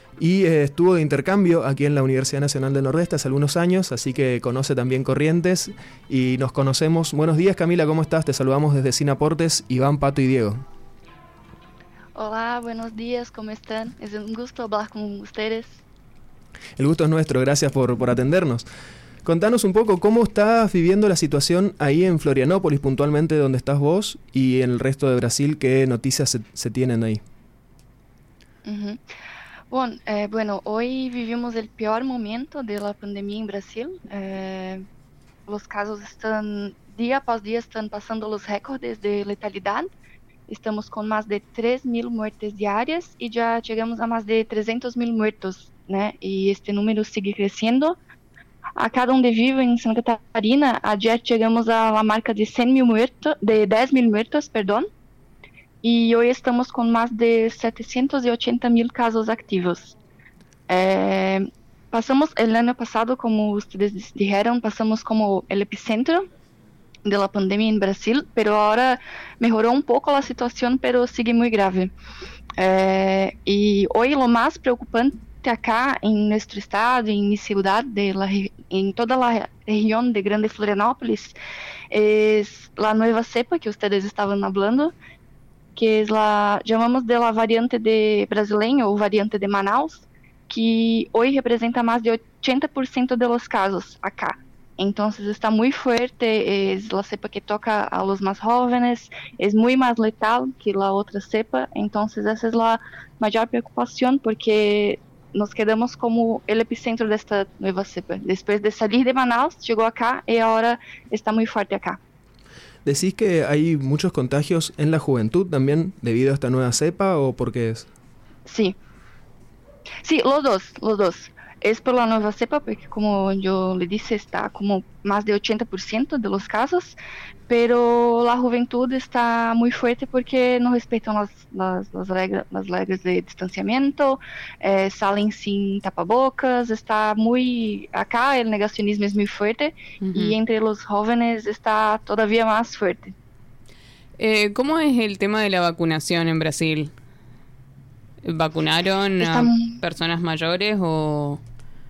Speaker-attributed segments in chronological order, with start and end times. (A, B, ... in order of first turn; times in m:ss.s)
0:00.2-0:10.6 A
0:12.1-0:15.8 B
0:16.8-0:18.6 A
0:19.2-0:27.2 A
0:28.6-0:29.0 B
0:29.7-0:34.8 B
0:35.5-0:39.9 B
0:40.5-0:48.0 B
0:48.8-0:54.8 B
0:55.8-0:59.9 B
1:00.7-1:06.2 B
1:07.0-1:11.9 B
1:12.6-1:21.4 B
1:21.9-1:24.9 B
1:25.8-1:52.0 B
1:52.8-1:57.9 A
1:58.4-1:58.8 B
2:00.0-2:07.0 B
2:07.5-2:23.1 B
2:20.0-2:20.4 C
2:24.2-2:26.9 C
2:28.2-2:31.4 C
2:29.2-2:29.8 B